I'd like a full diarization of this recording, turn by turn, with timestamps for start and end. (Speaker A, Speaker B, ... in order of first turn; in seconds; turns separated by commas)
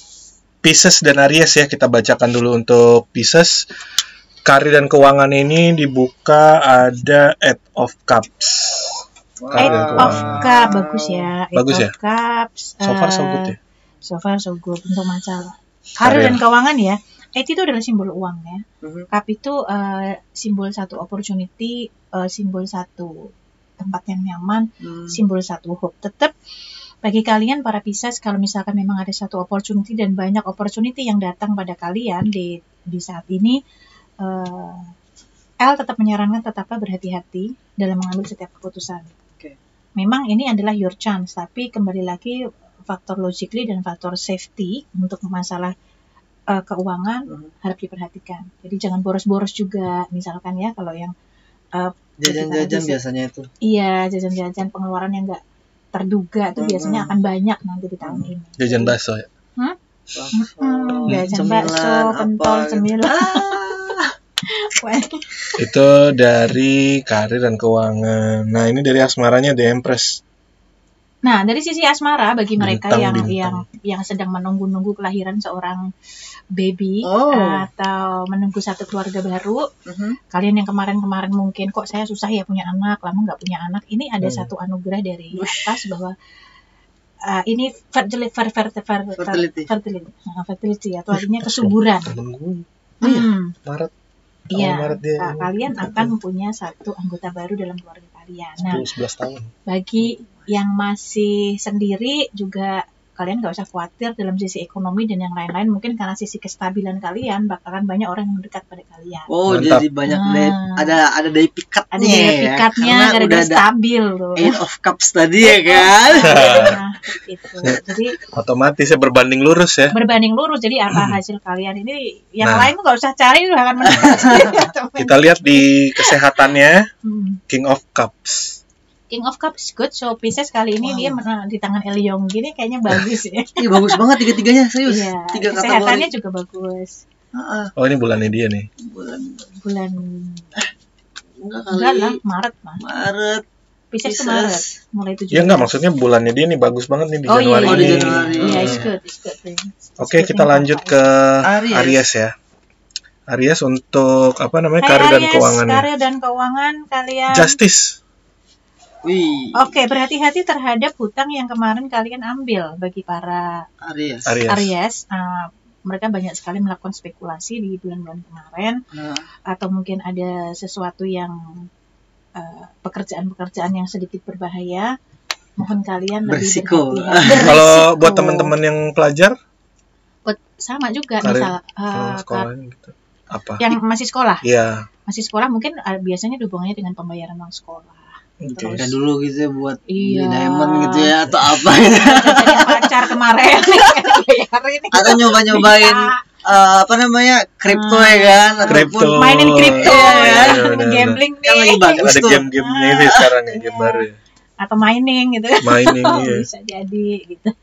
Speaker A: 0.6-3.7, Speaker A: 4.5-10.5, Speaker B: 9.4-11.3, Speaker C: 9.6-23.1, Speaker A: 11.5-11.9, Speaker A: 12.8-13.6, Speaker A: 16.0-16.4, Speaker B: 18.8-19.1, Speaker C: 23.8-26.3, Speaker B: 24.8-25.2, Speaker C: 27.0-33.6, Speaker C: 34.2-34.9, Speaker C: 35.6-39.1, Speaker C: 40.0-45.7, Speaker C: 46.5-51.1, Speaker C: 51.8-53.0, Speaker B: 52.2-53.5, Speaker C: 53.6-55.4, Speaker C: 55.9-59.0, Speaker B: 56.6-57.2, Speaker B: 58.0-58.3, Speaker A: 58.6-59.3, Speaker B: 60.1-64.1, Speaker C: 60.3-63.6, Speaker C: 64.7-65.2, Speaker A: 65.6-70.2, Speaker C: 71.2-75.8, Speaker A: 72.6-73.6, Speaker C: 76.6-79.6, Speaker B: 77.0-77.7, Speaker B: 79.9-80.2, Speaker C: 80.3-86.1, Speaker A: 84.2-84.5, Speaker B: 85.3-85.9, Speaker C: 87.3-92.1, Speaker B: 89.2-89.7, Speaker A: 91.1-92.7, Speaker C: 93.0-93.5, Speaker B: 93.0-93.3, Speaker A: 93.7-93.9, Speaker A: 94.5-96.1, Speaker C: 94.5-98.9, Speaker A: 98.6-99.5, Speaker C: 99.7-109.3, Speaker B: 100.0-100.5, Speaker B: 109.3-113.6, Speaker A: 109.5-109.9, Speaker C: 110.1-110.9, Speaker C: 111.9-114.6, Speaker B: 114.4-116.8, Speaker C: 115.4-118.2, Speaker A: 116.2-116.8, Speaker A: 118.3-120.0, Speaker C: 119.9-126.2, Speaker A: 122.4-122.7, Speaker B: 123.9-124.7, Speaker A: 125.0-126.8, Speaker C: 127.0-127.4, Speaker A: 127.5-128.6, Speaker C: 129.1-134.0, Speaker B: 130.8-131.2, Speaker B: 133.6-136.1, Speaker C: 134.9-137.0, Speaker B: 137.3-137.7, Speaker A: 137.8-138.7, Speaker B: 138.8-139.5, Speaker C: 139.6-140.5, Speaker B: 141.4-142.2, Speaker C: 141.7-142.8, Speaker B: 142.8-143.4, Speaker C: 143.9-145.8, Speaker B: 144.1-144.7, Speaker A: 145.3-148.9, Speaker C: 147.3-151.1, Speaker B: 147.6-148.9, Speaker A: 150.0-152.3, Speaker B: 151.4-152.1, Speaker A: 153.3-155.9, Speaker C: 154.8-157.6, Speaker A: 157.3-158.0, Speaker B: 159.0-159.7, Speaker C: 159.6-163.6, Speaker B: 163.8-164.4, Speaker A: 164.3-164.7, Speaker C: 164.5-168.8, Speaker B: 168.9-169.3, Speaker C: 169.5-171.7, Speaker C: 172.4-174.9, Speaker C: 175.6-178.5, Speaker B: 176.3-177.7, Speaker A: 177.3-179.4, Speaker C: 180.3-182.5, Speaker A: 181.2-183.7, Speaker C: 183.6-184.4, Speaker A: 184.4-184.8, Speaker C: 185.1-188.9, Speaker A: 188.4-188.9, Speaker B: 188.8-192.9, Speaker C: 189.9-196.2, Speaker B: 194.9-199.2, Speaker C: 197.7-204.1, Speaker A: 198.7-201.2, Speaker B: 199.8-200.6, Speaker B: 201.4-202.5, Speaker A: 202.0-204.2, Speaker C: 204.6-207.5, Speaker A: 205.6-206.5